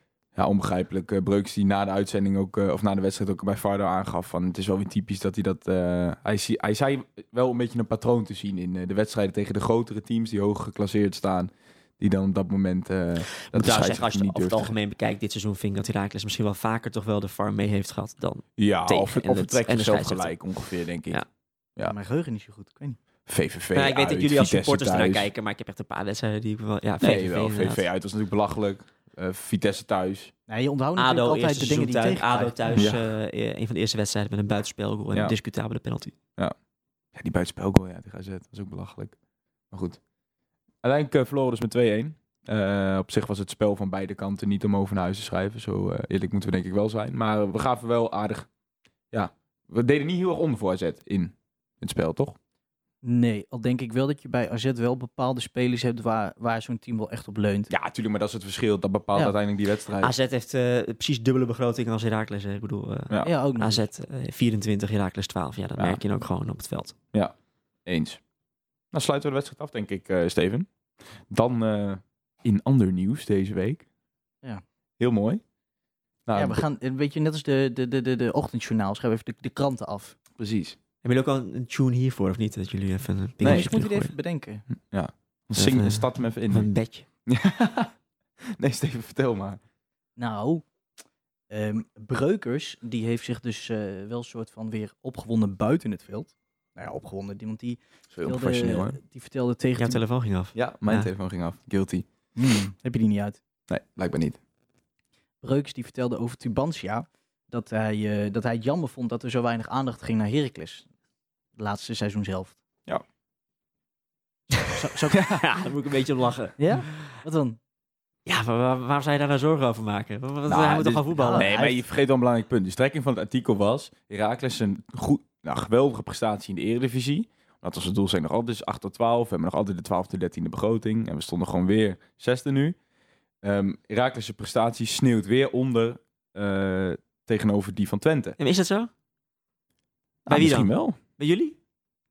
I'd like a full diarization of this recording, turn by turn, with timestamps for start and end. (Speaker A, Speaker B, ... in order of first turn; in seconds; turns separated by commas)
Speaker A: 0.3-14.7, Speaker B: 13.3-20.4, Speaker A: 18.6-21.2, Speaker C: 21.8-23.0, Speaker A: 23.3-25.3, Speaker B: 23.7-27.8, Speaker A: 27.0-30.3, Speaker C: 30.5-32.8, Speaker B: 31.0-36.1, Speaker A: 32.7-33.0, Speaker A: 37.1-39.2, Speaker A: 39.7-40.0, Speaker A: 40.8-48.5, Speaker A: 49.1-52.4, Speaker C: 53.0-57.7, Speaker A: 57.7-60.1, Speaker B: 60.0-67.0, Speaker C: 63.2-63.9, Speaker A: 67.9-68.2, Speaker A: 68.9-70.7, Speaker A: 71.3-73.8, Speaker A: 75.0-75.4, Speaker A: 76.3-76.6, Speaker C: 76.3-80.2, Speaker A: 80.4-80.8, Speaker B: 81.0-84.1, Speaker A: 83.4-83.7, Speaker C: 83.4-84.7, Speaker A: 84.8-86.7, Speaker B: 85.5-87.1, Speaker A: 87.3-87.9, Speaker A: 88.6-89.6, Speaker C: 90.2-90.7, Speaker C: 91.5-100.0, Speaker A: 98.1-99.0, Speaker B: 99.8-101.1, Speaker A: 100.5-102.0, Speaker C: 102.4-103.4, Speaker A: 103.7-104.4, Speaker C: 105.4-110.9, Speaker C: 111.6-112.6, Speaker B: 114.5-117.1, Speaker C: 114.7-115.2, Speaker A: 115.1-115.4, Speaker C: 116.6-117.6, Speaker B: 118.3-121.6, Speaker A: 120.5-132.8, Speaker C: 121.2-121.8, Speaker A: 133.4-138.4, Speaker B: 138.4-138.9, Speaker A: 140.3-141.0, Speaker B: 140.3-141.6